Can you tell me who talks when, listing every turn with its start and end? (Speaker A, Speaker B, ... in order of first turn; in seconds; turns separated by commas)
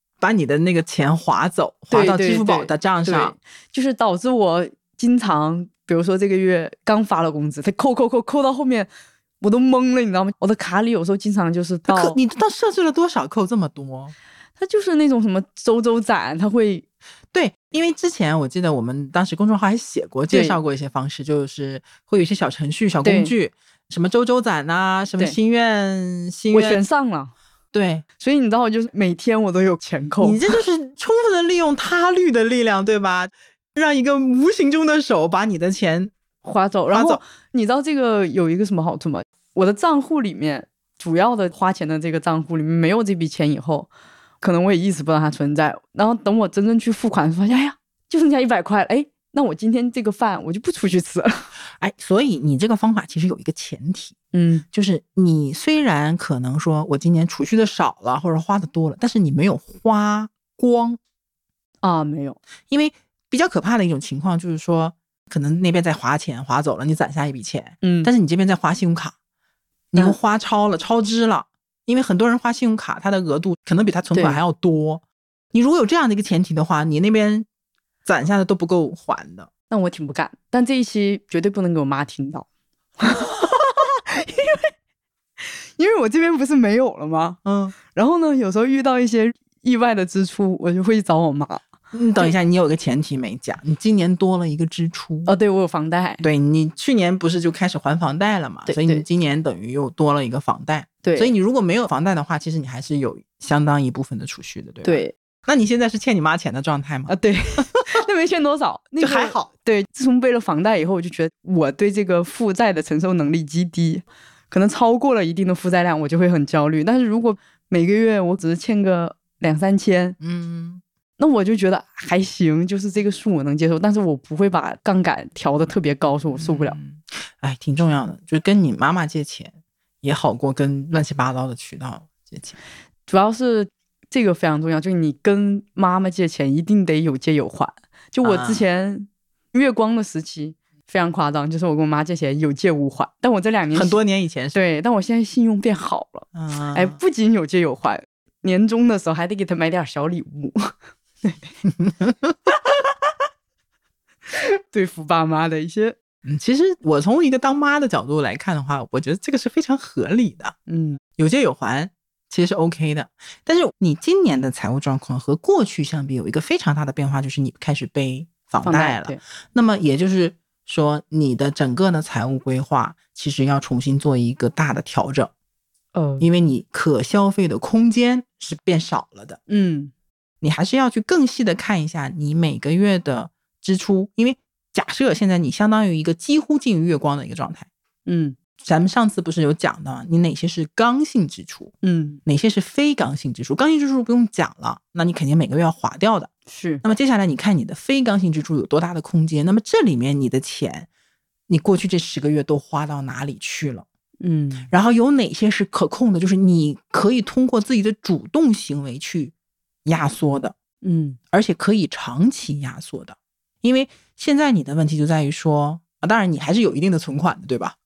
Speaker A: 0.2-3.4, Speaker B: 1.9-8.9, Speaker B: 9.4-12.2, Speaker A: 11.9-14.1, Speaker B: 14.6-16.9, Speaker A: 17.3-26.8, Speaker B: 20.3-20.6, Speaker B: 23.0-23.3, Speaker B: 26.5-27.3, Speaker A: 27.7-28.0, Speaker B: 28.2-30.4, Speaker A: 30.2-36.1, Speaker B: 36.4-43.9, Speaker A: 36.9-37.2, Speaker B: 44.4-51.5, Speaker A: 51.8-54.2, Speaker B: 54.3-54.6, Speaker A: 54.7-61.0, Speaker B: 61.8-62.4, Speaker A: 62.7-69.1, Speaker B: 67.8-68.1, Speaker A: 69.9-77.5, Speaker B: 74.1-74.4, Speaker A: 78.0-79.5, Speaker B: 79.7-82.5, Speaker B: 83.0-84.7, Speaker B: 85.4-91.7, Speaker A: 87.5-87.8, Speaker A: 91.9-95.3, Speaker B: 95.3-96.2, Speaker A: 96.2-108.0, Speaker B: 98.7-99.0, Speaker B: 101.0-101.3, Speaker B: 104.8-105.1, Speaker B: 107.1-120.2, Speaker A: 109.0-109.5, Speaker A: 120.2-120.8, Speaker B: 121.2-126.8, Speaker A: 126.3-132.6, Speaker B: 133.1-144.0, Speaker A: 138.2-138.7, Speaker A: 143.7-144.6, Speaker B: 144.6-151.5, Speaker A: 146.3-147.0, Speaker A: 151.6-152.4, Speaker B: 154.4-155.9, Speaker A: 156.3-160.6, Speaker B: 160.7-161.0, Speaker A: 161.2-175.3, Speaker B: 168.6-169.2, Speaker B: 175.9-176.3, Speaker A: 176.2-179.4, Speaker B: 179.5-179.9, Speaker A: 180.4-187.7, Speaker B: 188.1-188.4, Speaker A: 188.6-191.7, Speaker B: 191.8-192.2, Speaker A: 192.2-196.3, Speaker B: 196.5-196.8, Speaker A: 196.8-200.9, Speaker A: 201.5-203.9, Speaker B: 204.2-204.7, Speaker A: 204.7-209.3, Speaker A: 209.9-210.6, Speaker B: 210.8-211.2, Speaker A: 211.3-217.8